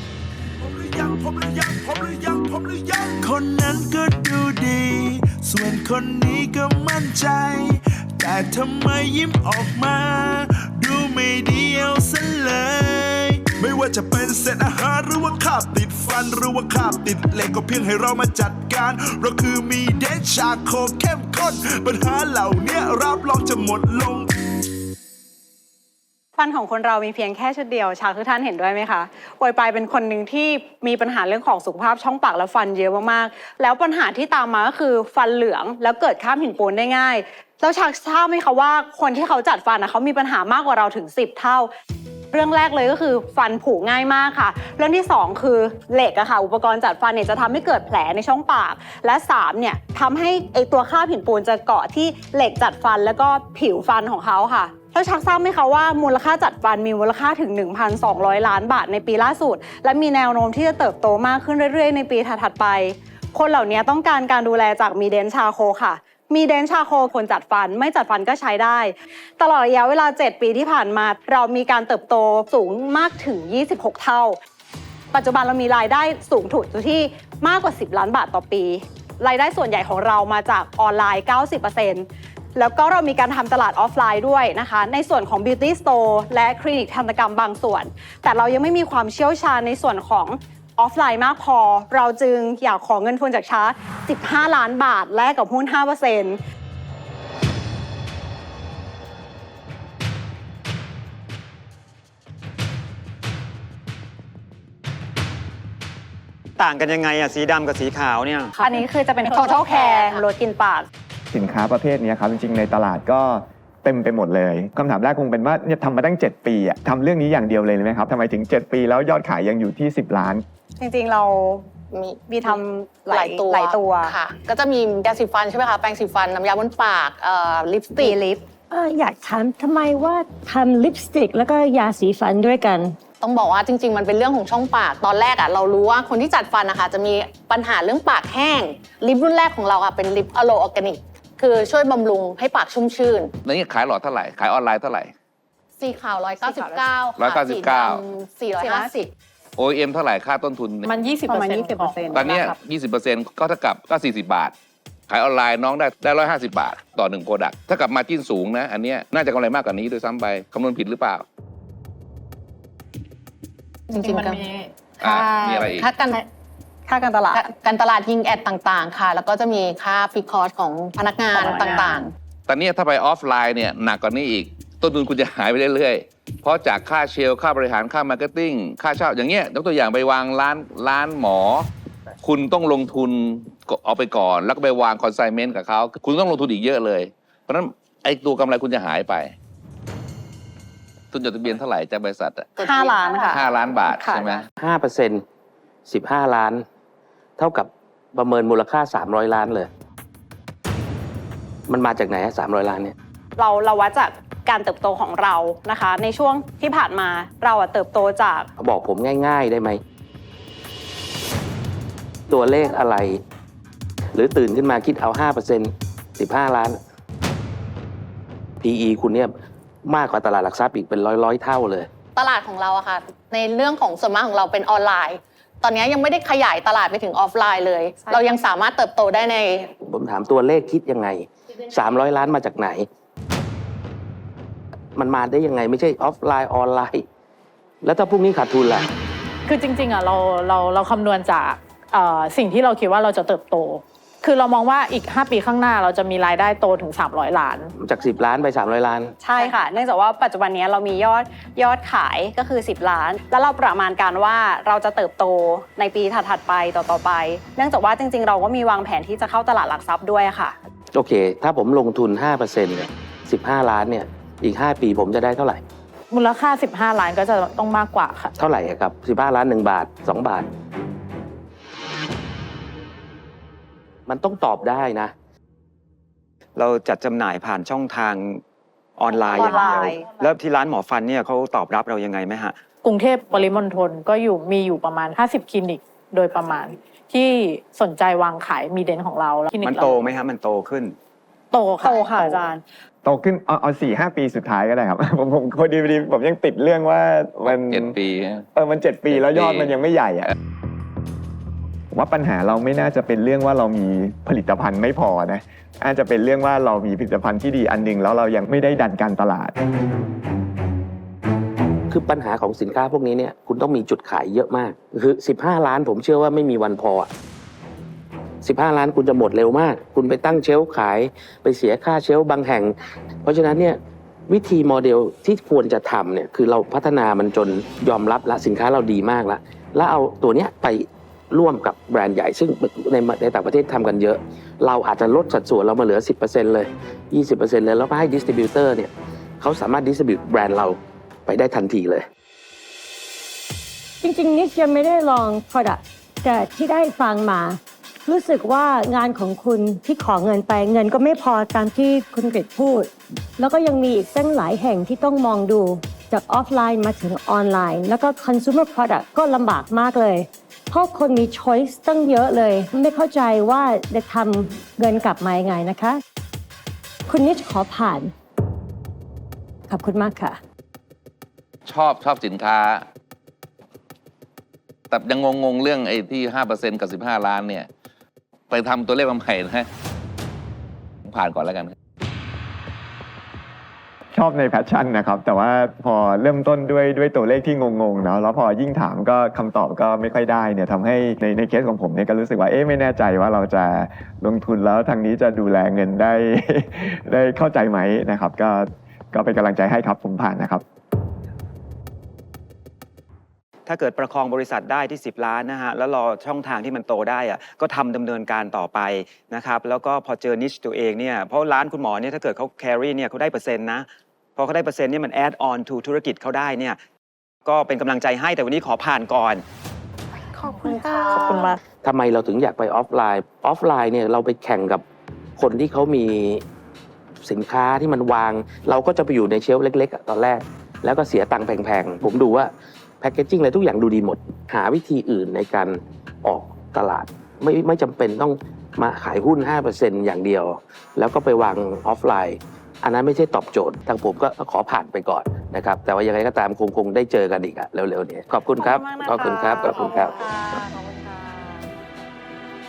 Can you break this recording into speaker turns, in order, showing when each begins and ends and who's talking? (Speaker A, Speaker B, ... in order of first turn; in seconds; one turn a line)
Speaker A: 0.6-24.3
Speaker B: 26.4-41.7
Speaker B: 42.3-74.4
Speaker B: 75.1-96.4
Speaker C: 106.6-108.6
Speaker B: 108.6-110.9
Speaker D: 109.3-110.2
Speaker E: 111.3-120.4
Speaker B: 120.8-121.7
Speaker D: 121.9-128.2
Speaker B: 122.3-124.1
Speaker B: 128.0-128.4
Speaker F: 128.7-133.0
Speaker D: 133.2-143.3
Speaker G: 143.4-145.1
Speaker D: 145.8-148.9
Speaker B: 146.5-146.8
Speaker G: 147.2-148.0
Speaker B: 148.6-149.1
Speaker G: 149.6-151.0
Speaker H: 150.9-152.6
Speaker B: 151.3-152.3
Speaker G: 152.1-154.5
Speaker G: 155.1-161.2
Speaker D: 163.9-164.5
Speaker H: 163.9-165.7
Speaker D: 165.0-166.2
Speaker G: 165.0-165.9
Speaker B: 166.9-167.4
Speaker D: 167.3-172.1
Speaker B: 171.3-172.0
Speaker G: 172.5-181.7
Speaker G: 182.2-189.3
Speaker G: 191.1-192.8
Speaker B: 192.6-194.4
Speaker D: 192.6-193.4
Speaker G: 193.3-194.5
Speaker I: 194.6-195.2
Speaker I: 195.9-196.6
Speaker I: 197.4-199.7
Speaker I: 201.7-202.9
Speaker B: 203.4-208.5
Speaker I: 208.6-209.8
Speaker I: 212.3-213.2
Speaker I: 214.1-216.8
Speaker I: 218.6-219.3
Speaker I: 219.8-221.9
Speaker D: 222.2-229.7
Speaker I: 229.8-232.9
Speaker I: 234.9-237.1
Speaker I: 237.8-238.9
Speaker H: 239.5-247.7
Speaker I: 247.8-249.2
Speaker B: 249.2-260.6
Speaker H: 249.4-249.7
Speaker I: 260.9-265.6
Speaker H: 266.1-268.3
Speaker I: 268.4-270.5
Speaker I: 274.1-275.1
Speaker C: 276.6-278.4
Speaker C: 279.0-282.6
Speaker B: 279.3-280.1
Speaker H: 279.4-279.8
Speaker H: 282.8-290.1
Speaker C: 289.6-291.0
Speaker H: 291.5-292.5
Speaker B: 291.8-292.6
Speaker E: 293.0-298.0
Speaker G: 297.4-298.4
Speaker E: 298.6-300.3
Speaker G: 299.1-300.3
Speaker E: 301.9-309.6
Speaker I: 311.9-317.1
Speaker I: 318.4-342.1
Speaker F: 344.0-366.0
Speaker F: 367.1-368.1
Speaker F: 369.7-370.4
Speaker G: 371.7-372.9
Speaker G: 374.9-377.7
Speaker G: 378.5-379.7
Speaker G: 381.1-381.7
Speaker E: 384.1-400.6
Speaker C: 403.7-416.8
Speaker C: 417.4-419.4
Speaker B: 420.4-421.5
Speaker H: 420.5-421.6
Speaker I: 421.8-424.8
Speaker I: 425.4-426.4
Speaker I: 427.2-450.1
Speaker B: 448.6-451.6